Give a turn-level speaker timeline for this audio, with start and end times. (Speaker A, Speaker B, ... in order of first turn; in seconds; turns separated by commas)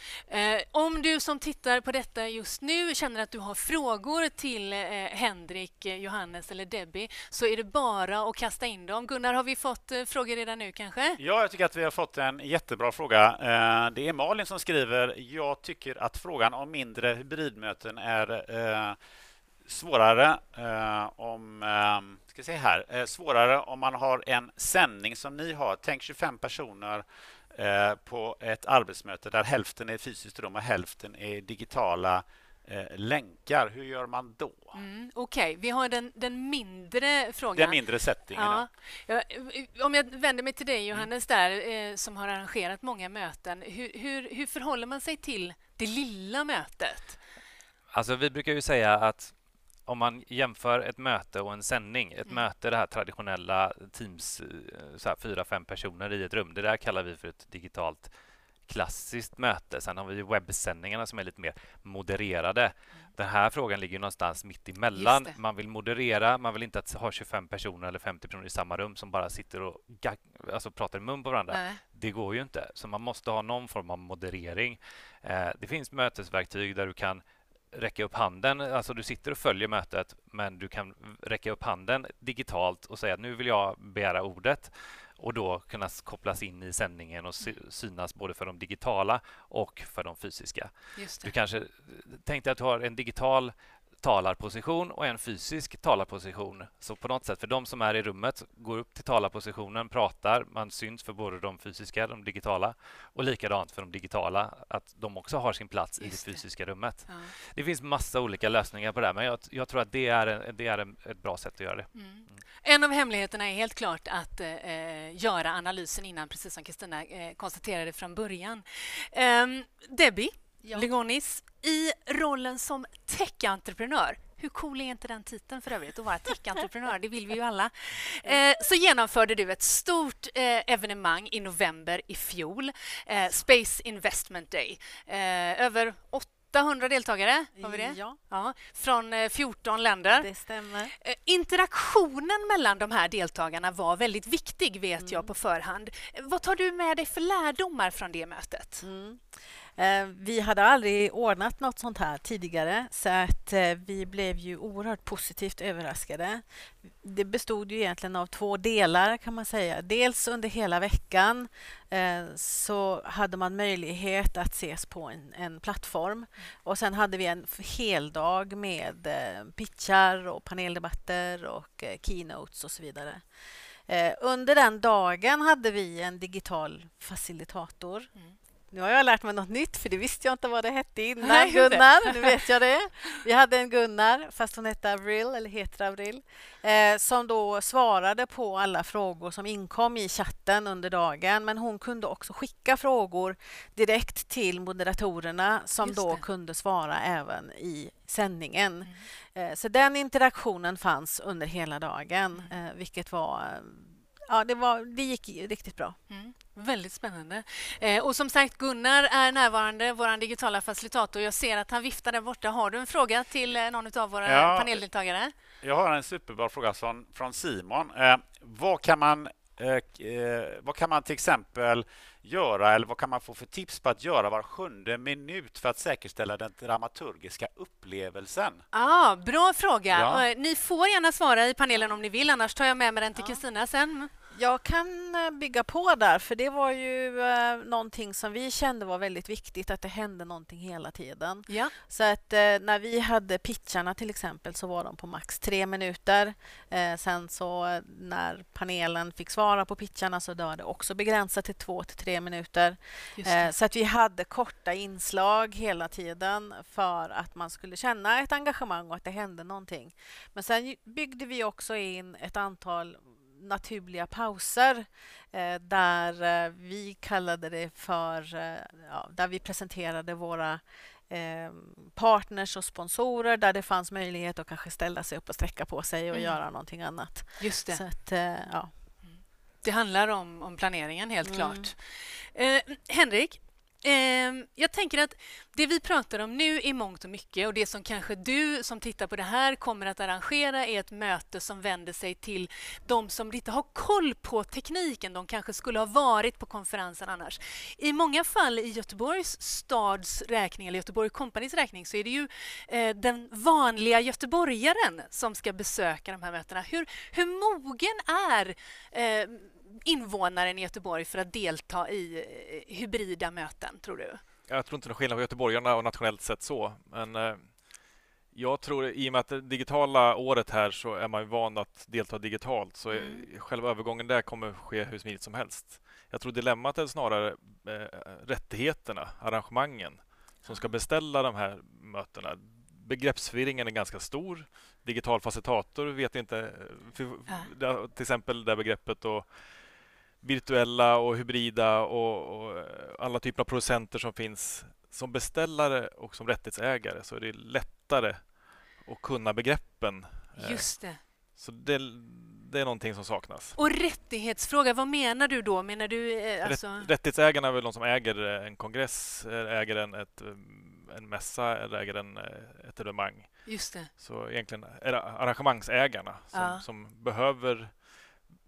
Speaker A: 0.2-11.2, Speaker B: 11.2-19.0, Speaker B: 19.7-34.8, Speaker A: 34.8-47.2, Speaker B: 37.5-38.7, Speaker C: 47.9-58.1, Speaker C: 58.6-112.4, Speaker A: 65.0-65.4, Speaker A: 71.5-71.8, Speaker A: 91.0-91.3, Speaker A: 106.0-107.3, Speaker A: 111.9-140.3, Speaker D: 137.6-138.2, Speaker D: 140.1-140.9, Speaker A: 141.0-148.8, Speaker D: 145.0-145.3, Speaker D: 148.8-173.2, Speaker D: 173.9-178.1, Speaker D: 178.7-206.0, Speaker A: 181.2-182.3, Speaker A: 195.8-196.2, Speaker A: 206.1-215.3, Speaker B: 214.2-214.8, Speaker B: 215.6-228.6, Speaker A: 228.7-234.1, Speaker B: 229.9-230.2, Speaker D: 233.2-233.4, Speaker D: 234.3-278.7, Speaker A: 241.5-241.7, Speaker A: 253.2-253.5, Speaker A: 276.1-276.4, Speaker A: 277.4-277.8, Speaker A: 279.1-314.2, Speaker D: 281.2-281.7, Speaker E: 314.5-353.6, Speaker A: 322.9-323.2, Speaker A: 330.5-330.7, Speaker A: 350.4-351.0, Speaker A: 353.6-356.9, Speaker E: 356.4-367.9, Speaker A: 363.5-363.9, Speaker A: 366.3-366.6